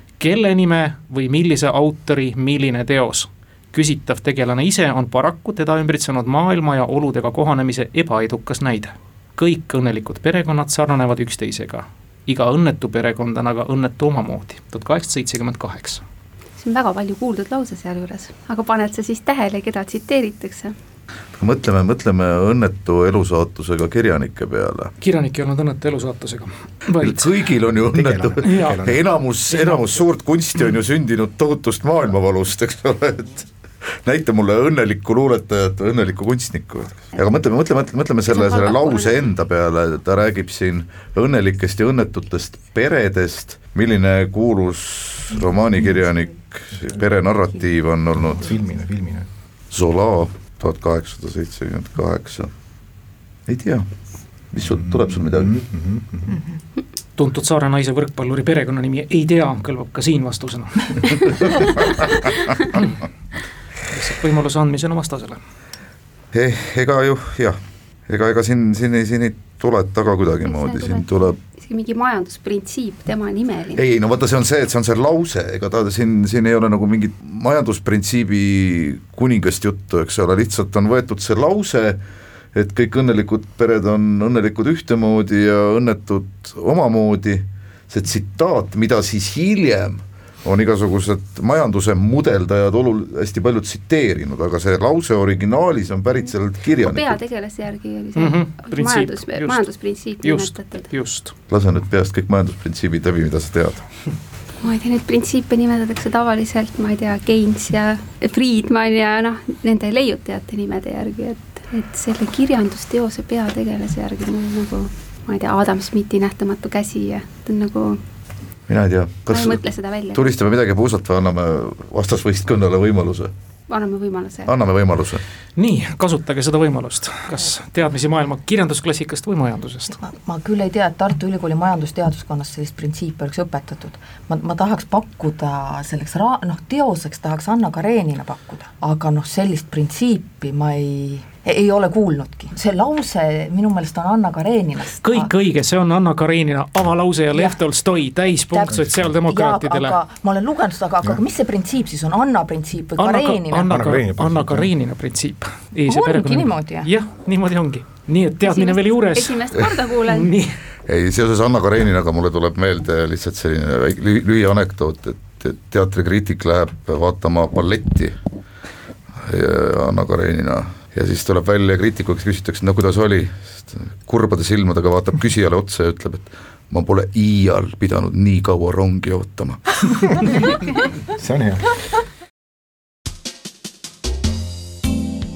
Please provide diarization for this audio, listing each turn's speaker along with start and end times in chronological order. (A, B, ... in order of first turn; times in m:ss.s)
0:00.2-0:16.0 A
0:16.6-0:20.7 B
0:21.3-0:24.9 C
0:25.0-0:27.3 A
0:27.0-0:33.5 C
0:27.8-0:29.0 D
0:28.4-0:28.8 A
0:29.5-0:29.8 A
0:34.0-0:48.6 C
0:38.3-0:39.3 B
0:48.2-0:49.3 D
0:49.7-0:52.5 C
0:53.5-0:53.9 C
0:54.5-0:55.6 C
0:54.6-0:56.4 D
0:57.2-1:01.8 A
1:03.9-1:05.4 A
1:06.3-1:11.4 C
1:10.4-1:13.8 B
1:13.8-1:22.0 C
1:22.5-1:37.2 C
1:36.8-1:40.9 B
1:38.2-1:39.7 A
1:40.2-1:41.3 A
1:41.5-1:43.8 C
1:44.6-1:58.0 B
1:58.7-2:03.3 C
1:59.3-2:00.2 B
2:03.7-2:04.5 B
2:04.4-2:05.2 C
2:05.6-2:10.0 A
2:09.9-2:25.3 E
2:25.0-2:30.0 A
2:27.3-2:27.6 E
2:28.5-2:33.8 E
2:28.7-2:29.1 D
2:33.0-2:39.4 A
2:33.6-2:34.7 D
2:35.9-2:36.9 E
2:38.4-2:40.3 B
2:40.1-2:40.6 A
2:40.8-2:48.2 C
2:49.2-2:59.9 C
3:01.1-3:01.7 D